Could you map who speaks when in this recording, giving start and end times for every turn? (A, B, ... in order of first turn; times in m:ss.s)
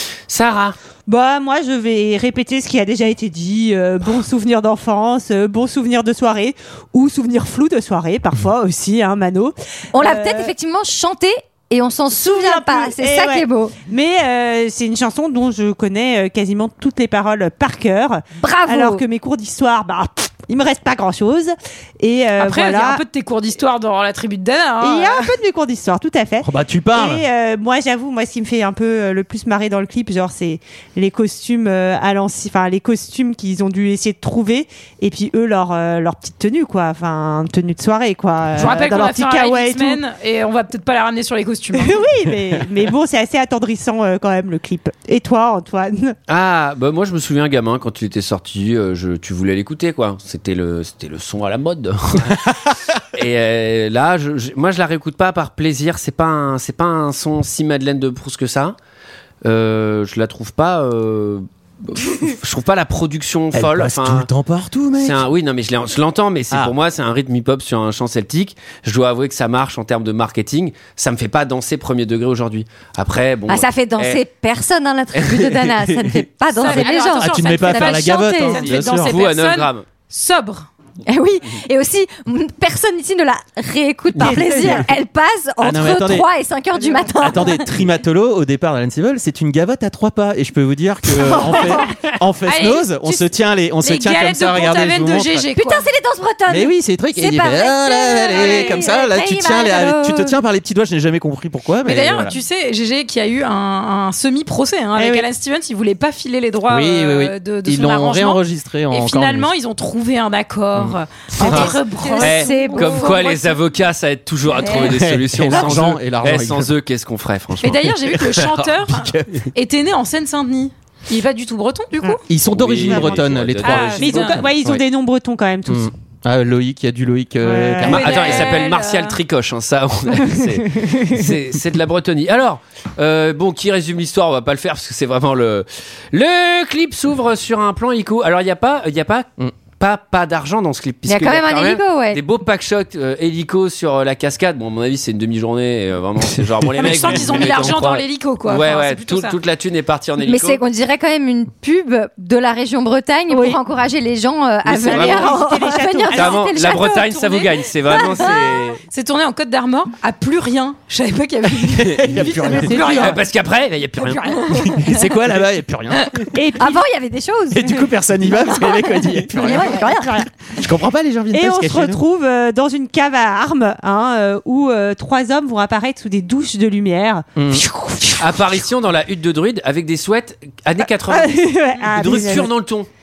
0:00.3-0:00.8 A
0:01.0-0:10.5 B
0:09.9-0:13.8 C
0:12.2-0:23.0 B
0:18.4-0:19.0 C
0:22.4-0:25.3 D
0:24.8-0:40.0 B
0:26.4-0:27.2 E
0:38.6-0:42.0 D
0:41.7-0:46.1 B
0:46.3-0:52.5 A
0:53.1-0:58.8 A
0:59.4-1:04.3 A
1:03.5-1:05.2 E
1:05.0-1:14.2 A
1:13.5-1:18.7 C
1:15.1-1:16.2 A
1:16.5-1:20.7 D
1:17.1-1:19.1 E
1:19.0-1:19.9 A
1:21.0-1:27.7 C
1:24.2-1:24.6 A
1:24.2-1:24.8 B
1:25.6-1:26.3 E
1:27.1-1:35.5 E
1:31.4-1:31.7 B
1:32.4-1:33.3 D
1:33.8-1:35.9 D
1:35.5-1:40.4 C
1:36.5-1:42.4 E
1:38.3-1:38.8 D
1:41.8-1:53.6 D
1:45.0-1:45.3 B
1:46.7-1:49.5 E
1:51.4-1:52.7 B
1:51.4-1:57.9 A
1:52.1-1:53.2 C
1:54.7-1:56.7 E
1:57.6-2:02.2 D
1:57.7-1:59.4 E
2:02.3-2:04.8 E
2:02.5-2:04.7 A
2:02.9-2:03.2 B
2:03.6-2:04.4 D
2:03.9-2:05.9 B
2:05.7-2:08.6 E
2:07.4-2:08.0 B
2:07.9-2:30.6 A
2:07.9-2:09.2 D
2:10.4-2:11.2 B
2:21.0-2:22.2 C
2:26.8-2:29.4 D
2:26.9-2:27.5 E
2:30.2-2:38.6 C
2:33.3-2:33.6 B
2:34.6-2:35.5 A
2:34.8-2:36.5 B
2:36.1-2:38.8 A
2:38.3-2:43.2 D
2:41.8-2:44.4 A
2:42.0-2:43.0 E
2:42.5-2:43.2 B
2:44.3-2:45.0 C
2:44.8-2:46.2 E
2:46.3-2:46.8 B
2:46.5-2:50.2 C
2:47.5-2:49.9 E
2:50.0-2:50.2 B
2:50.6-2:52.0 E
2:51.3-2:58.0 B
2:57.4-2:57.6 E
2:58.2-3:02.9 A
3:01.1-3:02.5 B